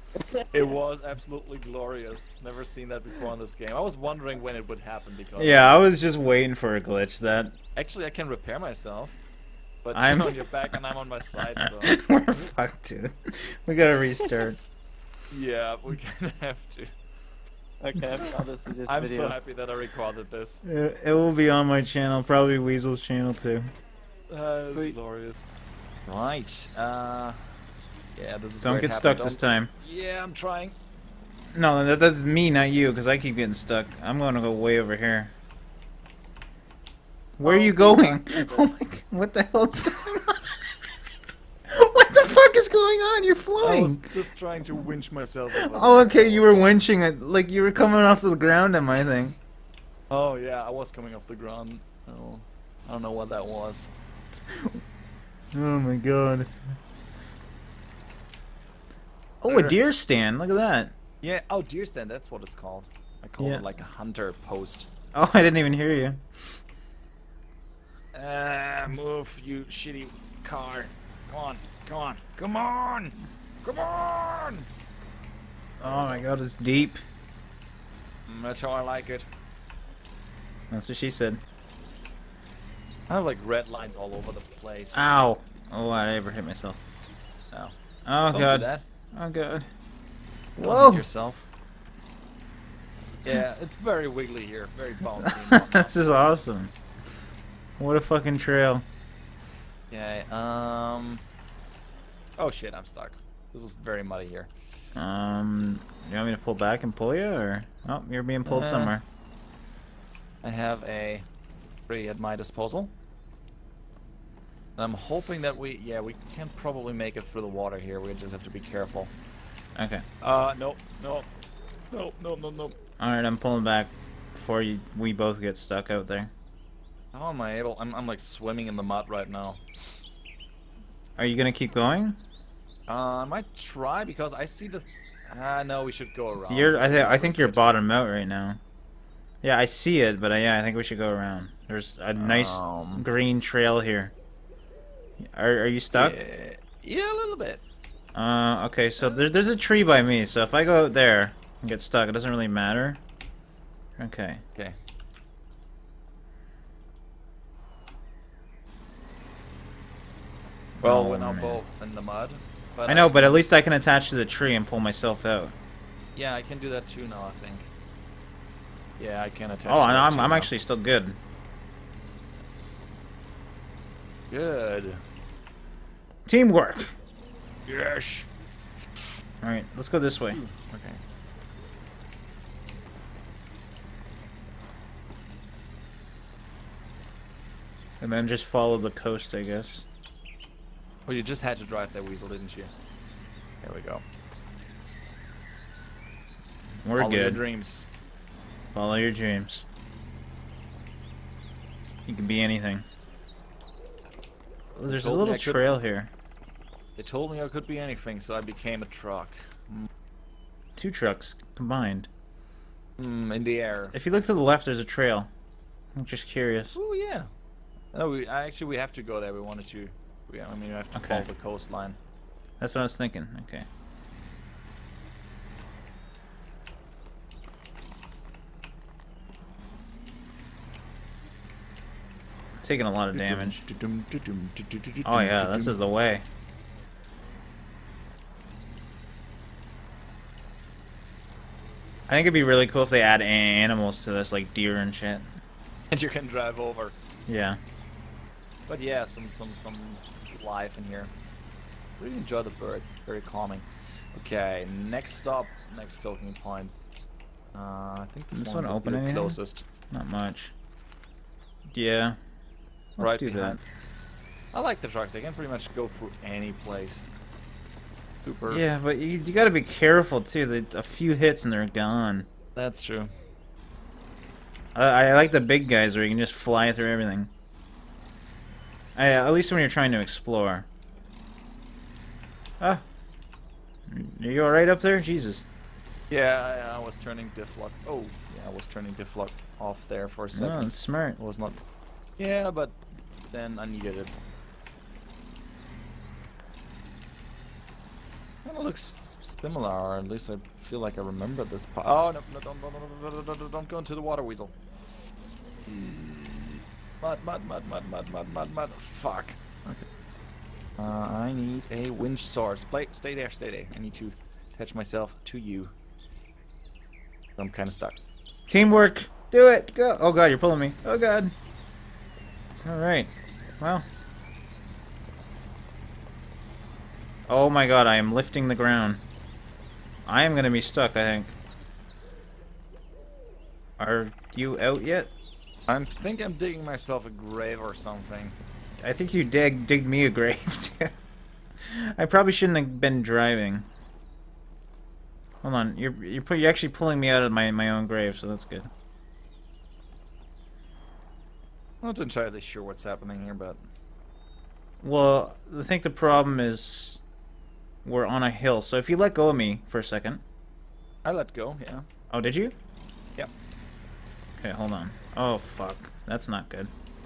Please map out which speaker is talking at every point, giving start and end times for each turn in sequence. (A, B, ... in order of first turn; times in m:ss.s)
0:00.3-0:00.7 A
0:00.5-0:05.8 B
0:05.4-0:07.5 C
0:07.8-0:09.2 B
0:09.8-0:11.9 B
0:09.9-0:10.5 C
0:11.6-0:14.6 C
0:15.3-0:16.9 B
0:17.8-0:19.4 A
0:18.9-0:20.6 B
0:20.6-0:23.7 C
0:24.3-0:25.4 B
0:26.1-0:27.5 B
0:28.1-0:30.7 B
0:28.6-0:29.7 C
0:31.5-0:35.3 C
0:37.4-0:40.6 C
0:37.4-0:38.6 A
0:41.7-0:44.0 C
0:43.6-0:46.8 B
0:45.5-0:49.4 C
0:50.1-0:53.9 B
0:54.5-0:54.8 C
0:55.5-0:56.5 C
0:59.4-1:00.9 C
0:59.5-0:59.8 B
1:01.2-1:04.9 B
1:03.4-1:03.6 C
1:05.1-1:06.2 C
1:08.1-1:14.7 B
1:15.8-1:17.0 C
1:15.8-1:16.2 B
1:18.3-1:19.3 B
1:20.7-1:21.4 C
1:23.1-1:25.2 B
1:24.9-1:26.8 C
1:28.0-1:29.7 C
1:28.3-1:28.8 B
1:30.6-1:31.5 B
1:30.6-1:31.0 C
1:33.2-1:36.0 B
1:35.2-1:36.7 C
1:37.8-1:38.8 C
1:39.9-1:41.2 B
1:42.4-1:44.5 B
1:44.9-1:49.0 C
1:48.4-1:49.0 B
1:50.4-1:51.2 B
1:51.9-1:52.9 B
1:54.8-1:59.1 B
1:59.8-2:00.0 C
2:00.2-2:01.3 B
2:01.9-2:02.7 B
2:03.0-2:06.3 C
2:07.1-2:09.6 B
2:11.2-2:12.2 C
2:12.9-2:17.8 B
2:16.5-2:18.6 C
2:19.4-2:24.1 C
2:22.2-2:23.0 B
2:25.2-2:26.2 C
2:25.9-2:27.6 B
2:28.1-2:33.0 C
2:34.0-2:34.4 C
2:40.8-2:41.6 C
2:40.8-2:43.4 B
2:42.8-2:45.5 C
2:46.1-2:47.7 B
2:49.0-2:50.5 B
2:49.6-2:51.2 C
2:54.3-2:55.0 B
2:56.2-2:56.9 C
2:57.6-2:58.3 B
2:59.4-3:00.4 C
3:00.3-3:01.0 B
3:08.0-3:09.8 C
3:11.0-3:12.7 B
3:13.6-3:14.0 B
3:16.8-3:17.4 C
3:17.0-3:17.9 B
3:18.7-3:19.6 C
3:22.1-3:22.8 C
3:24.8-3:26.1 C
3:24.8-3:25.8 B
3:27.0-3:29.9 B
3:30.8-3:32.1 C
3:33.0-3:33.9 B
3:33.9-3:35.3 C
3:36.0-3:36.8 C
3:36.7-3:37.3 B
3:37.9-3:42.0 B
3:40.9-3:41.3 C
3:42.6-3:43.6 C
3:52.6-3:53.6 C
3:53.1-3:55.8 B
3:55.0-3:56.2 C
4:02.1-4:05.3 C
4:05.9-4:06.9 B
4:07.3-4:07.6 C
4:08.7-4:11.1 B
4:12.0-4:16.7 B
4:17.5-4:19.6 B
4:18.3-4:19.4 C
4:19.9-4:20.5 C
4:21.7-4:22.2 C
4:23.0-4:23.6 C
4:23.0-4:23.6 B
4:24.5-4:27.1 B
4:28.2-4:28.6 B
4:28.5-4:32.3 C
4:32.5-4:33.1 B
4:34.7-4:37.3 C
4:39.0-4:40.6 C
4:43.9-4:45.4 C
4:46.1-4:51.6 B
4:50.3-4:51.2 C
4:52.2-4:52.8 B
4:53.3-4:54.2 B
4:58.4-5:04.6 B
5:05.7-5:09.8 B
5:10.8-5:15.7 B
5:17.4-5:18.0 B
5:18.5-5:21.3 C
5:22.6-5:23.8 C
5:27.3-5:29.0 C
5:30.0-5:31.4 C
5:33.8-5:35.1 C
5:35.7-5:38.4 B
5:38.8-5:40.9 C
5:41.6-5:43.6 C
5:45.4-5:48.7 C
5:51.8-5:53.6 B
5:54.8-5:57.0 C
5:57.8-6:00.2 C
6:01.0-6:01.8 B
6:02.1-6:02.5 C
6:04.4-6:06.7 C